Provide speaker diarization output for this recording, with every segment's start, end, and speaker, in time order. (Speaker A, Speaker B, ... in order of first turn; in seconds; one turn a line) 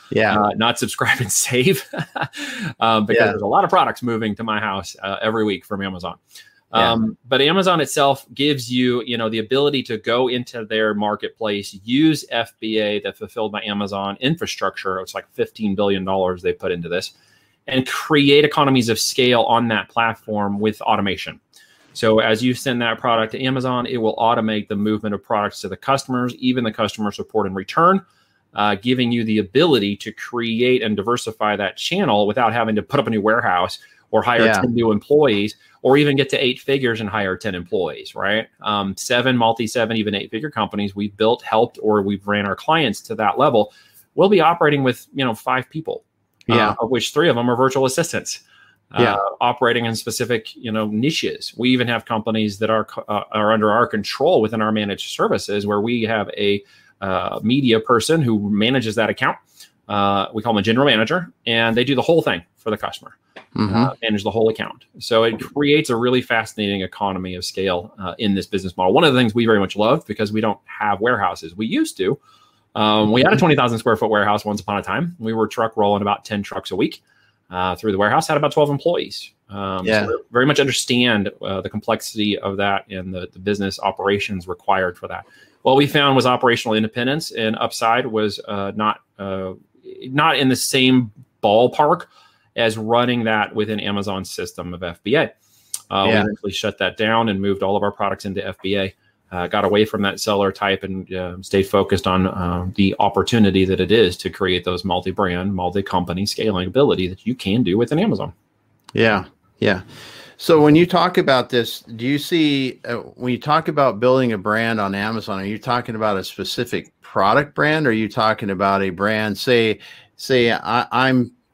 Speaker A: 0.1-0.4
Speaker B: 0.3-6.2
Speaker A: 3.1-3.4
Speaker B: 6.7-17.1
Speaker B: 17.7-21.4
Speaker B: 21.9-28.0
Speaker B: 28.5-48.4
Speaker A: 34.4-34.6
Speaker A: 46.5-46.8
Speaker B: 48.9-72.2
Speaker A: 63.5-63.9
Speaker B: 72.7-95.3
Speaker A: 79.8-80.1
Speaker B: 95.9-108.3
Speaker A: 96.0-96.3
Speaker A: 108.9-109.8
Speaker A: 110.4-121.3